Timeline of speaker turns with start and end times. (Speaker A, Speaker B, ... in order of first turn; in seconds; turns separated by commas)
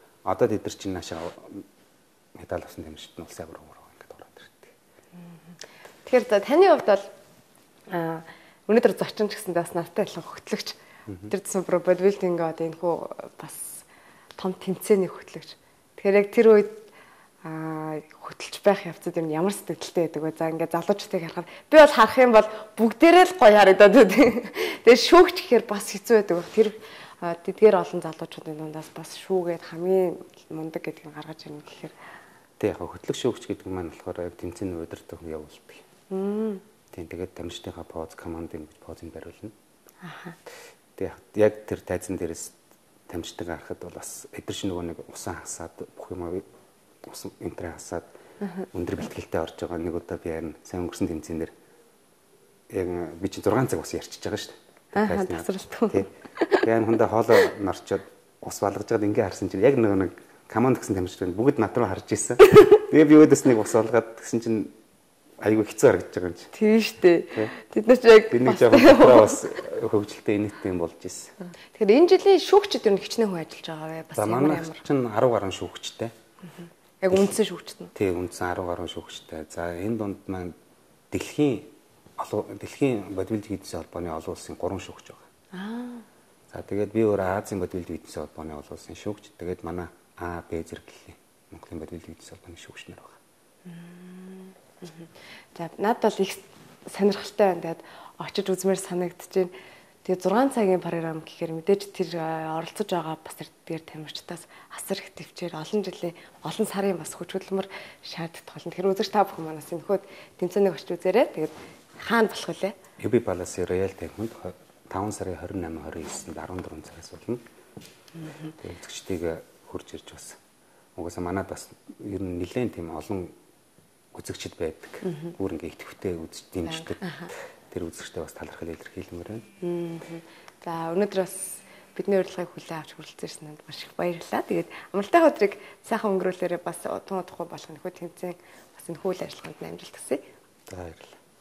Speaker A: 0.2-1.6, Speaker A: 2.3-4.7, Speaker B: 6.0-7.0, Speaker B: 7.9-13.8, Speaker B: 14.4-16.9, Speaker B: 17.4-31.9, Speaker A: 32.6-35.8, Speaker B: 36.1-36.6, Speaker A: 36.9-39.5, Speaker B: 40.0-40.4, Speaker A: 41.0-42.5, Speaker A: 43.1-46.4, Speaker A: 47.0-48.1, Speaker A: 48.7-51.5, Speaker A: 52.7-56.1, Speaker B: 54.9-56.7, Speaker A: 56.6-64.7, Speaker A: 65.4-66.5, Speaker B: 66.5-69.5, Speaker A: 68.3-71.3, Speaker B: 71.7-74.8, Speaker A: 74.1-76.1, Speaker B: 77.0-77.9, Speaker A: 77.1-77.3, Speaker A: 77.9-80.5, Speaker A: 81.1-85.2, Speaker B: 85.5-86.0, Speaker A: 86.5-93.2, Speaker B: 93.7-99.5, Speaker B: 100.0-112.7, Speaker A: 113.0-117.4, Speaker A: 118.5-120.4, Speaker A: 121.0-123.3, Speaker A: 124.1-129.4, Speaker B: 125.0-125.3, Speaker B: 126.7-127.3, Speaker B: 129.6-140.2, Speaker A: 140.7-141.1